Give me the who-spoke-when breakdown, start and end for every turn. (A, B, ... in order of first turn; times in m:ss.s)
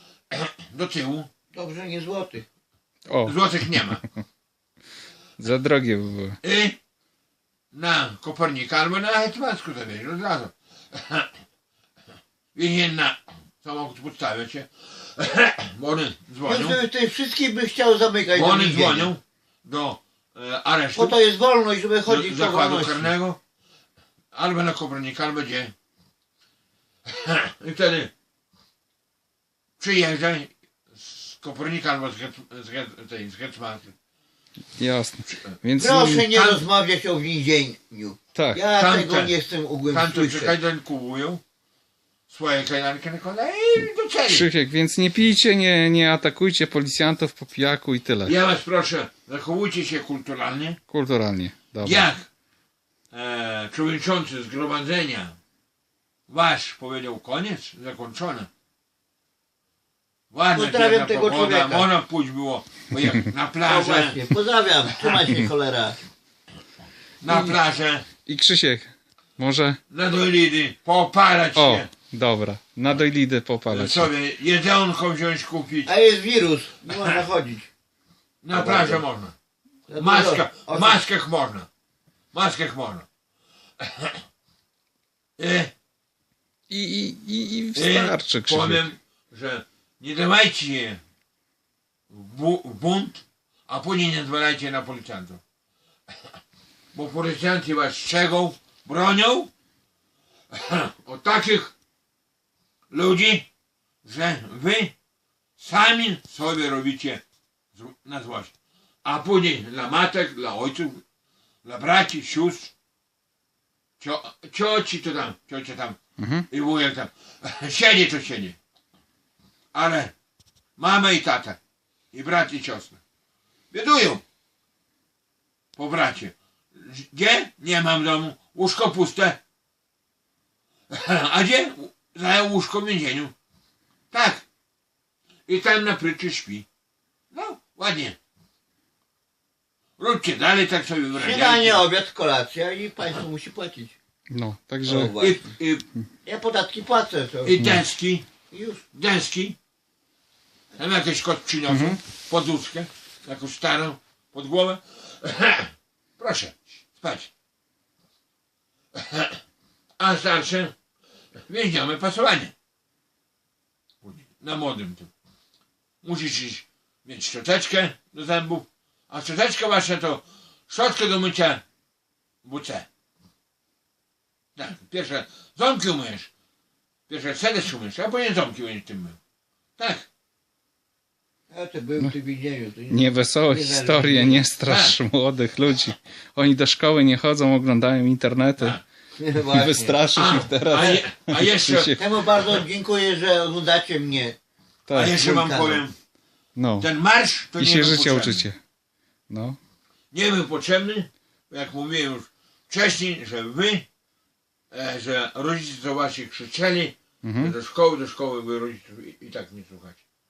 0:00.3-0:01.3 A
0:01.5-0:02.4 B
0:03.1-0:04.0 C
0:03.3-0:04.0 A
0:05.4-0:06.4 C
0:06.4-0:06.8 A
0:07.7-0:11.3 A
0:12.6-0:16.8 A
0:16.4-0:19.1 B
0:18.3-0:21.2 A
0:21.0-0:23.1 B
0:22.1-0:23.4 A
0:24.3-0:25.7 A
0:27.1-0:28.1 A
0:29.8-0:33.9 A
0:34.8-0:36.3 C
0:35.8-0:40.6 B
0:36.3-0:36.6 A
0:38.4-0:38.6 C
0:38.8-0:39.3 A
0:39.9-0:41.4 A
0:42.3-0:44.5 A
0:43.8-0:48.4 C
0:48.3-0:50.8 A
0:50.9-0:52.1 C
0:51.8-0:52.3 A
0:53.1-0:55.4 A
0:56.3-0:58.5 A
1:00.3-1:04.2 A
1:00.5-1:01.9 B
1:03.6-1:06.0 B
1:07.2-1:08.0 A
1:08.3-1:09.8 C
1:09.9-1:11.9 A
1:11.6-1:14.1 C
1:13.7-1:15.9 A
1:15.9-1:17.7 B
1:16.9-1:17.2 A
1:18.4-1:19.4 A
1:18.5-1:19.0 B
1:19.9-1:21.0 B
1:20.0-1:21.7 A
1:22.3-1:23.1 A
1:23.8-1:24.2 A
1:25.4-1:25.7 A
1:26.7-1:28.9 C
1:27.8-1:31.0 A
1:32.1-1:35.4 A
1:36.9-1:39.5 A
1:40.5-1:41.7 A
1:42.9-1:43.5 A
1:44.0-1:44.9 A
1:45.6-1:47.2 A
1:47.8-1:48.5 A
1:49.0-1:51.0 A
1:51.6-1:52.7 A
1:54.0-1:56.0 A
1:56.2-1:56.5 C
1:56.5-1:58.6 A
1:59.7-2:00.1 A
2:00.8-2:01.6 A
2:02.1-2:03.0 A
2:03.7-2:04.2 A
2:05.8-2:09.4 A
2:10.9-2:13.3 A
2:14.1-2:14.4 A
2:15.5-2:16.7 A
2:17.3-2:18.2 A
2:20.0-2:21.9 A
2:21.1-2:24.0 B
2:24.3-2:25.2 C
2:24.8-2:25.5 B
2:25.2-2:25.8 A
2:26.2-2:27.7 B
2:27.4-2:28.3 A
2:28.5-2:28.8 B
2:28.9-2:29.6 A
2:30.8-2:37.3 A
2:31.7-2:32.0 C
2:38.9-2:39.4 A
2:40.0-2:40.7 A
2:41.5-2:42.5 A
2:44.0-2:45.1 A
2:46.0-2:51.6 A
2:52.4-2:52.9 A
2:54.6-2:56.3 A
2:57.1-2:59.2 A
2:59.8-3:00.1 A
3:01.5-3:04.5 B
3:02.9-3:08.8 C
3:04.6-3:05.0 A
3:09.2-3:10.0 B
3:09.5-3:12.1 C
3:10.2-3:11.9 A
3:12.0-3:14.4 B
3:14.9-3:15.2 C
3:14.9-3:15.9 A
3:15.0-3:15.8 B
3:16.6-3:16.9 C
3:16.8-3:18.5 A
3:17.6-3:18.6 C
3:19.3-3:19.6 C
3:20.1-3:23.9 A
3:24.7-3:30.0 A
3:27.2-3:27.6 C